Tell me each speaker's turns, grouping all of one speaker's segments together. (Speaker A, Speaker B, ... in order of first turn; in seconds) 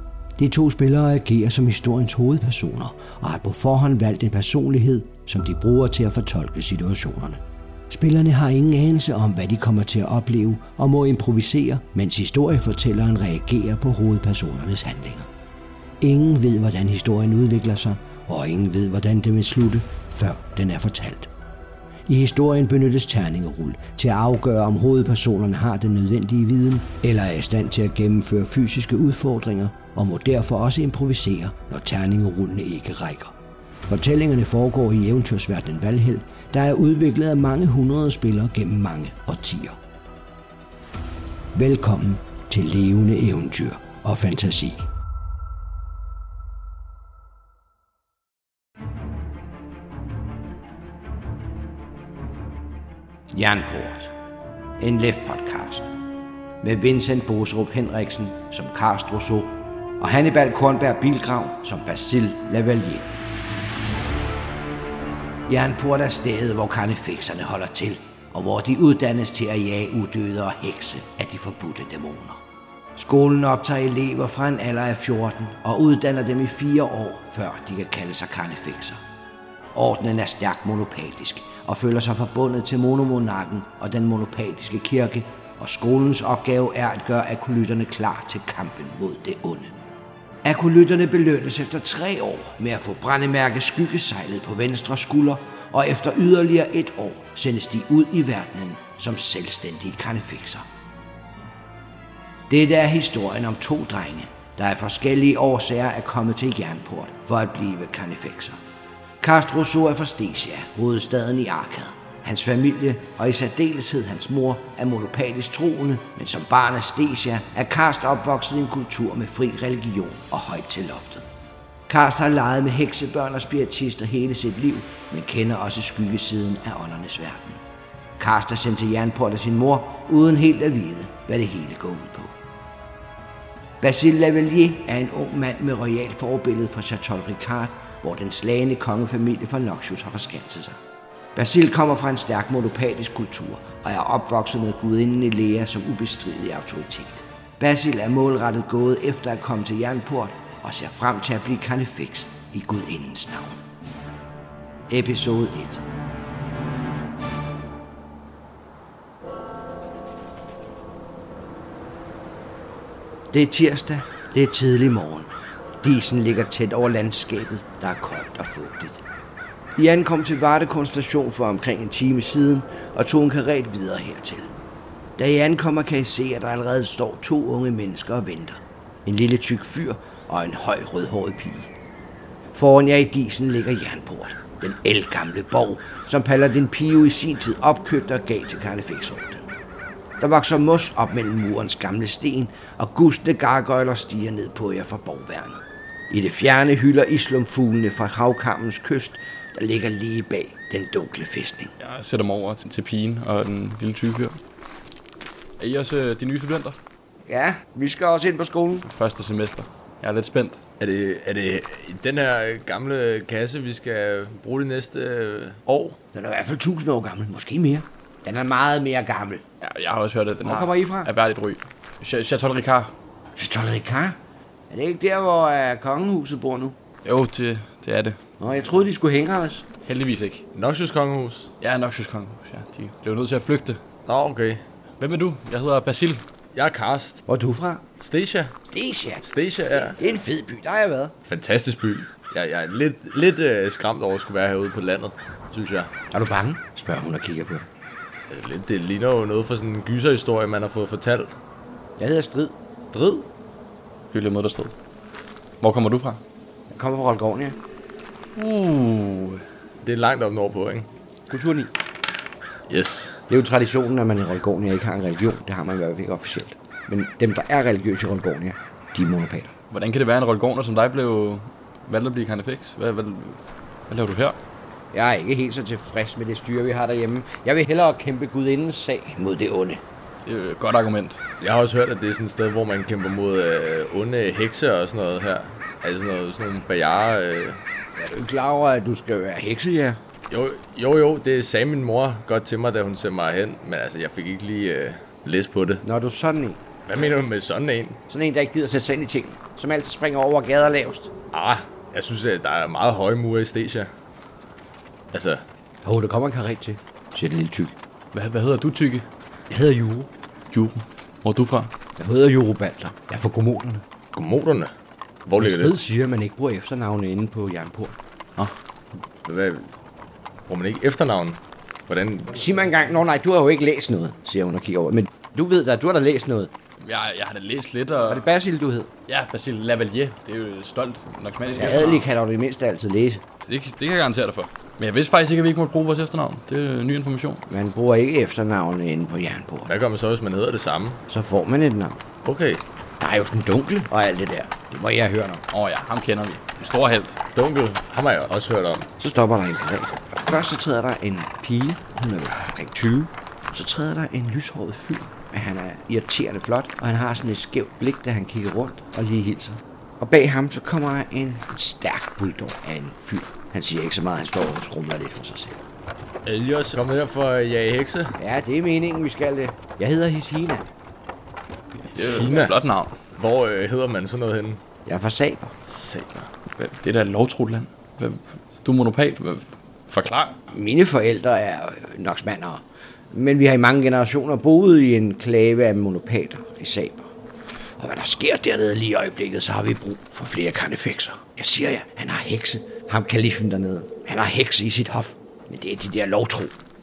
Speaker A: 0.4-15.3, 16.0-21.3, 22.1-33.3, 33.9-39.8, 41.5-44.9, 53.3-54.1, 54.8-55.9, 56.6-63.1, 65.5-72.4, 73.0-79.0, 79.7-89.7, 90.4-100.6, 102.5-108.6, 109.2-121.3, 121.9-127.6, 128.2-132.3, 133.8-140.8, 141.3-153.6, 154.9-155.8, 163.3-165.3, 165.8-169.0, 169.8-174.5, 175.2-181.7, 182.5-189.5, 190.2-201.7, 207.2-208.9, 216.1-219.4, 220.4-221.1, 223.4-224.2, 224.7-226.8, 228.4-229.7, 237.3-237.8, 238.7-241.1, 246.1-247.7, 252.0-253.1, 256.7-257.6, 261.3-261.7, 263.3-269.5, 274.9-279.8, 288.0-290.0, 295.8-296.6, 298.1-301.1, 305.8-307.7, 309.5-310.1, 312.0-313.8, 315.4-317.9, 322.3-326.5, 328.1-328.9, 331.6-333.2, 337.5-339.7, 341.1-342.0, 343.0-345.4, 349.0-365.6, 368.2-370.7, 374.9-375.6, 380.5-387.1, 387.8-396.5
Speaker B: 201.8-204.4, 205.6-206.8, 208.8-210.6, 219.6-222.9, 227.0-228.2, 229.8-230.4, 231.6-233.8, 235.0-236.2, 254.1-254.7, 255.6-256.2, 258.4-259.4, 269.7-274.4, 280.2-281.2, 308.1-309.1, 310.5-311.7, 326.8-328.2, 329.1-332.1, 333.4-337.4, 345.5-347.2, 371.8-372.9, 376.5-380.4
Speaker C: 210.8-216.0, 230.5-231.5, 234.1-234.6, 236.5-237.2, 238.0-238.6, 239.2-240.0, 241.2-245.9, 248.3-251.3, 259.8-260.9, 262.7-263.2, 281.4-287.6, 290.3-295.8, 296.9-298.0, 301.3-303.9, 305.1-305.4, 314.1-314.7, 315.2-315.8, 319.2-319.7, 320.5-322.3, 339.6-341.0, 342.2-342.6, 347.3-348.9, 366.2-368.1, 371.9-372.6, 373.1-374.6, 375.7-376.3